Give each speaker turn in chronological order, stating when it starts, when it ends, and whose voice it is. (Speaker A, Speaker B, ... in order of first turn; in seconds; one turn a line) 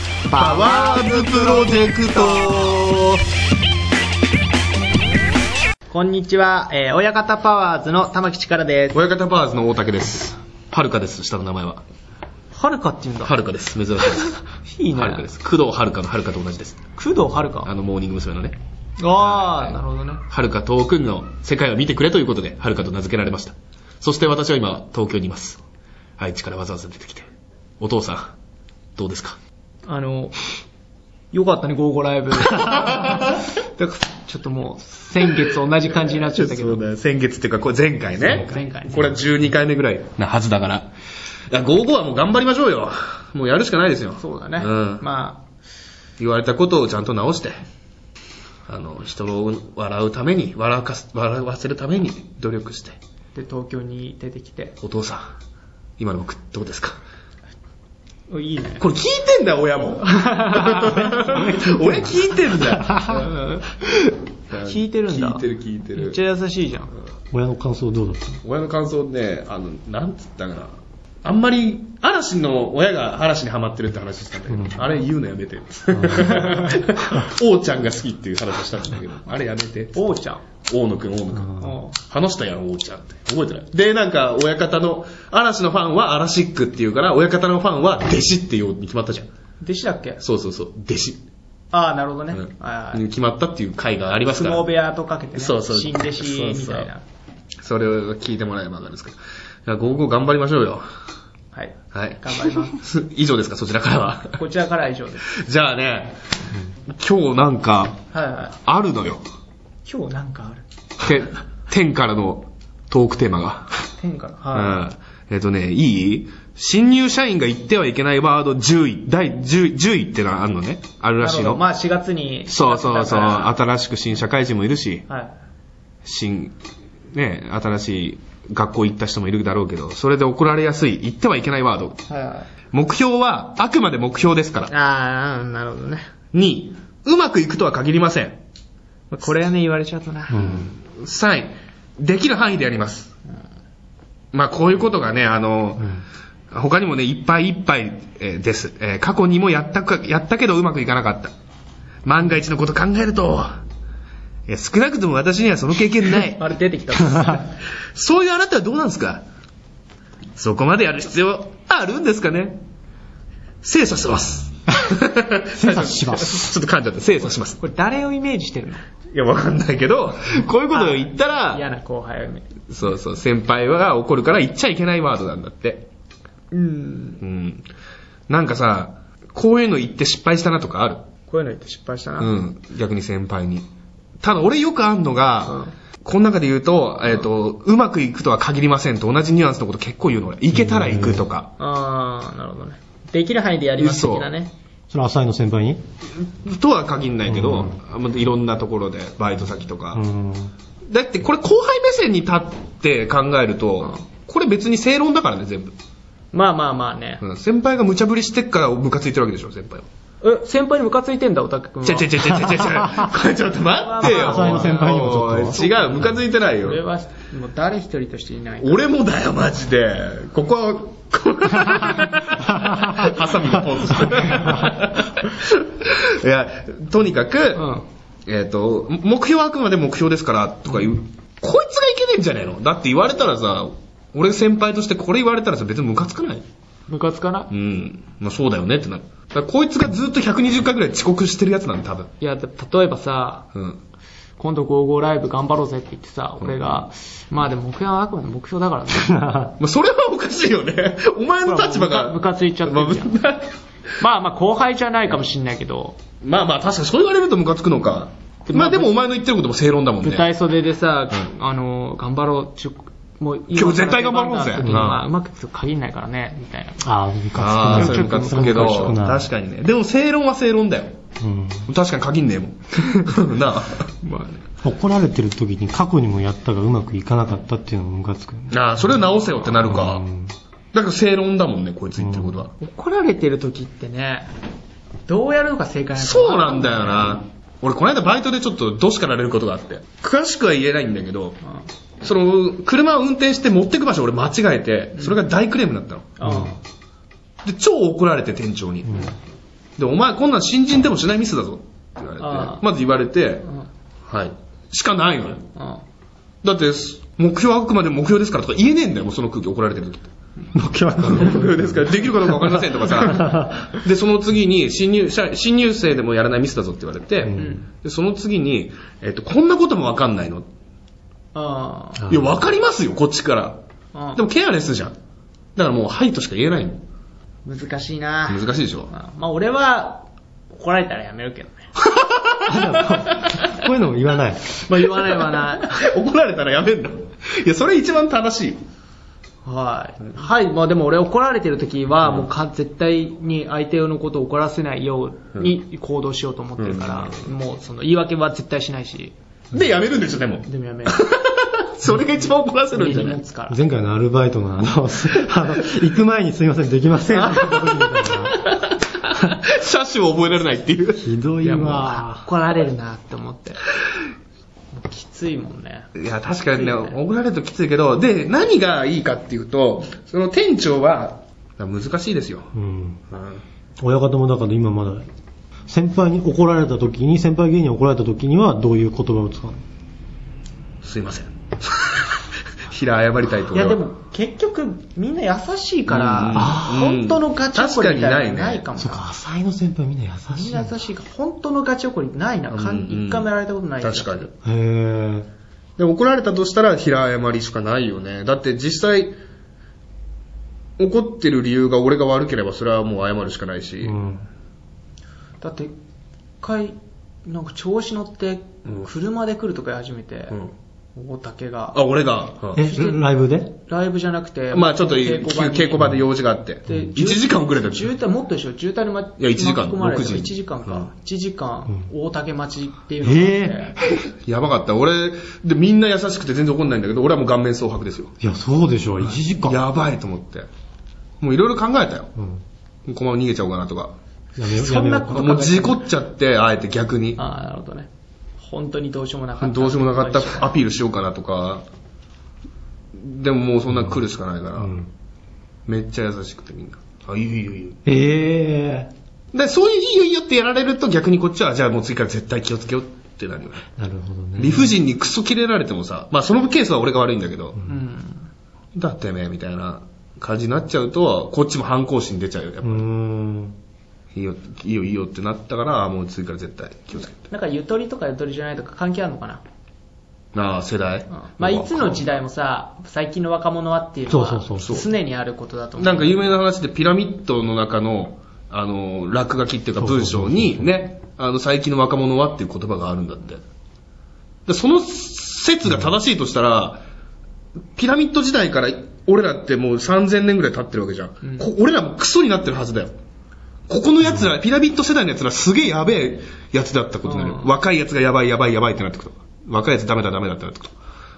Speaker A: 0.3-2.8
Speaker B: 0.3-3.2
Speaker A: 5.9-9.0
Speaker B: 8.9-11.8
Speaker A: 12.5-13.3
Speaker B: 13.2-14.4
Speaker A: 14.6-15.3
Speaker B: 14.9-16.8
Speaker A: 17.0-17.7
Speaker B: 17.6-18.6
Speaker A: 19.0-20.2
Speaker B: 19.2-19.8
Speaker B: 20.3-25.6
Speaker B: 26.2-27.3
Speaker B: 27.8-28.3
Speaker B: 28.9-29.4
Speaker A: 29.9-30.4
Speaker A: 31.3-36.8
Speaker B: 32.6-33.4
Speaker B: 35.9-40.9
Speaker A: 38.3-39.0
Speaker B: 41.5-45.0
Speaker A: 44.2-45.4
Speaker B: 46.2-47.6
Speaker B: 48.7-53.0
Speaker A: 53.3-54.7
Speaker B: 54.8-55.2
Speaker B: 56.0-57.0
Speaker A: 58.3-58.8
Speaker B: 58.8-66.2
Speaker A: 60.0-61.1
Speaker C: 61.1-62.0
Speaker C: 62.7-63.2
Speaker A: 64.6-66.9
Speaker C: 67.3-68.4
Speaker B: 68.4-70.7
Speaker B: 71.2-80.0
Speaker A: 79.9-80.4
Speaker B: 80.7-89.3
Speaker A: 81.6-81.9
Speaker A: 89.6-90.2
Speaker B: 90.2-91.2
Speaker A: 91.7-93.0
Speaker B: 92.3-94.6
Speaker A: 94.3-97.0
Speaker B: 95.3-96.9
Speaker B: 97.6-100.8
Speaker A: 101.5-102.8
Speaker B: 101.9-104.4
Speaker A: 104.3-105.3
Speaker B: 105.3-106.2
Speaker B: 106.9-108.0
Speaker A: 108.1-108.5
Speaker B: 108.6-109.2
Speaker A: 109.8-110.6
Speaker B: 111.0-113.7
Speaker A: 114.0-114.8
Speaker B: 114.5-121.6
Speaker A: 121.2-123.5
Speaker B: 122.5-125.0
Speaker A: 125.1-125.3
Speaker B: 126.0-126.5
Speaker B: 127.1-132.0
Speaker A: 132.1-132.5
Speaker B: 132.7-134.7
Speaker A: 134.7-136.1
Speaker B: 136.3-138.4
Speaker A: 139.1-140.7
Speaker B: 140.3-143.1
Speaker B: 144.3-151.3
Speaker B: 152.0-153.6
Speaker B: 154.5-156.4
Speaker A: 156.3-157.5
Speaker B: 157.9-159.2
Speaker B: 160.3-162.6
Speaker B: 163.6-167.6
Speaker C: 165.6-166.4
Speaker A: 167.6-168.8
Speaker B: 169.1-171.6
Speaker A: 170.7-172.5
Speaker B: 172.7-175.8
Speaker A: 176.5-177.2
Speaker B: 177.2-177.7
Speaker B: 178.3-181.1
Speaker A: 181.3-182.4
Speaker B: 182.2-183.7
Speaker B: 184.2-191.5
Speaker A: 185.4-185.7
Speaker C: 190.5-191.2
Speaker A: 191.6-194.5
Speaker B: 193.8-194.3
Speaker C: 194.9-195.8
Speaker B: 196.2-200.0
Speaker C: 197.3-197.7
Speaker C: 199.9-200.5
Speaker B: 200.9-205.7
Speaker A: 206.3-207.2
Speaker B: 207.2-209.9
Speaker A: 210.2-212.7
Speaker B: 211.8-216.8
Speaker A: 213.7-218.8
Speaker C: 214.0-215.8
Speaker B: 218.6-236.4
Speaker C: 222.5-223.1
Speaker A: 224.3-224.7
Speaker A: 227.5-227.8
Speaker A: 236.9-237.5
Speaker B: 237.5-242.1
Speaker A: 242.2-243.4
Speaker B: 243.5-243.8
Speaker A: 244.4-249.4
Speaker B: 246.4-246.7
Speaker C: 249.1-249.4
Speaker B: 249.6-253.5
Speaker A: 251.4-253.2
Speaker A: 254.0-256.0
Speaker B: 256.2-260.3
Speaker A: 258.5-258.9
Speaker A: 260.0-266.9
Speaker B: 263.5-265.0
Speaker C: 264.6-264.9
Speaker C: 266.8-269.3
Speaker B: 267.3-271.0
Speaker A: 267.7-268.9
Speaker C: 271.2-271.7
Speaker B: 271.7-273.9
Speaker A: 274.0-274.4
Speaker C: 274.6-278.9
Speaker B: 278.5-280.1
Speaker C: 279.6-280.3
Speaker B: 280.7-282.5
Speaker C: 282.0-282.4
Speaker A: 282.6-284.3
Speaker A: 285.1-287.2
Speaker B: 286.0-291.4
Speaker B: 292.0-296.2
Speaker A: 296.2-296.6
Speaker B: 297.4-299.1
Speaker B: 299.8-303.5
Speaker A: 302.2-302.6
Speaker B: 304.1-305.4
Speaker A: 305.6-305.8
Speaker B: 306.4-310.1
Speaker C: 310.5-313.6
Speaker B: 310.9-320.4
Speaker C: 317.3-317.5
Speaker A: 317.3-317.6
Speaker A: 321.3-322.1
Speaker B: 322.1-323.6
Speaker A: 323.9-324.2
Speaker B: 324.1-324.9
Speaker B: 325.6-326.8
Speaker A: 327.4-331.7
Speaker B: 328.3-328.9
Speaker B: 331.8-333.5
Speaker C: 332.4-334.6
Speaker A: 334.6-335.8
Speaker B: 335.1-338.6
Speaker A: 339.4-349.1
Speaker B: 346.6-347.2
Speaker B: 349.5-353.2
Speaker A: 350.4-351.0
Speaker A: 352.7-353.6
Speaker C: 353.5-358.4
Speaker A: 357.2-357.5
Speaker B: 358.2-361.1
Speaker C: 361.0-362.3
Speaker A: 361.4-363.6
Speaker A: 364.7-365.9
Speaker B: 365.9-372.5
Speaker A: 366.5-366.9
Speaker C: 372.5-373.0
Speaker B: 373.1-373.4
Speaker C: 373.8-375.1
Speaker C: 375.7-379.6
Speaker B: 380.8-382.1
Speaker B: 382.7-383.8
Speaker A: 383.5-389.1
Speaker B: 385.9-388.6
Speaker C: 386.3-386.8
Speaker C: 388.8-390.8
Speaker A: 390.3-394.3
Speaker B: 392.5-393.3
Speaker B: 393.8-394.3
Speaker C: 394.4-395.3
Speaker B: 395.8-399.1
Speaker B: 400.8-404.0
Speaker C: 403.8-404.2
Speaker A: 405.4-405.7
Speaker A: 406.4-410.4
Speaker A: 410.9-411.8
Speaker B: 411.7-412.6
Speaker C: 412.6-413.6
Speaker A: 412.6-413.0
Speaker A: 413.6-416.0
Speaker B: 414.5-417.9
Speaker A: 416.7-423.8
Speaker B: 419.2-420.9
Speaker C: 423.0-423.7
Speaker B: 424.0-428.1
Speaker C: 428.2-429.6
Speaker B: 429.1-430.5
Speaker B: 431.2-432.1
Speaker C: 432.2-432.4
Speaker B: 432.9-433.9
Speaker C: 434.4-435.4
Speaker A: 434.5-435.8
Speaker B: 435.1-437.2
Speaker A: 437.1-437.9
Speaker A: 438.4-440.5
Speaker B: 439.4-441.6
Speaker B: 442.9-444.8
Speaker C: 444.6-444.9
Speaker B: 445.7-447.8
Speaker C: 447.8-448.9
Speaker B: 449.3-453.7
Speaker C: 453.8-454.7
Speaker B: 454.4-457.6
Speaker A: 457.6-458.3
Speaker B: 458.7-462.8
Speaker C: 462.6-463.6
Speaker B: 464.1-467.2
Speaker A: 467.3-469.4
Speaker B: 470.3-472.0
Speaker A: 471.1-476.3
Speaker C: 474.1-474.8
Speaker B: 474.6-474.9
Speaker B: 475.8-483.4
Speaker C: 479.8-480.7
Speaker B: 484.5-486.8
Speaker B: 487.8-492.9
Speaker B: 493.7-500.7
Speaker A: 497.1-497.5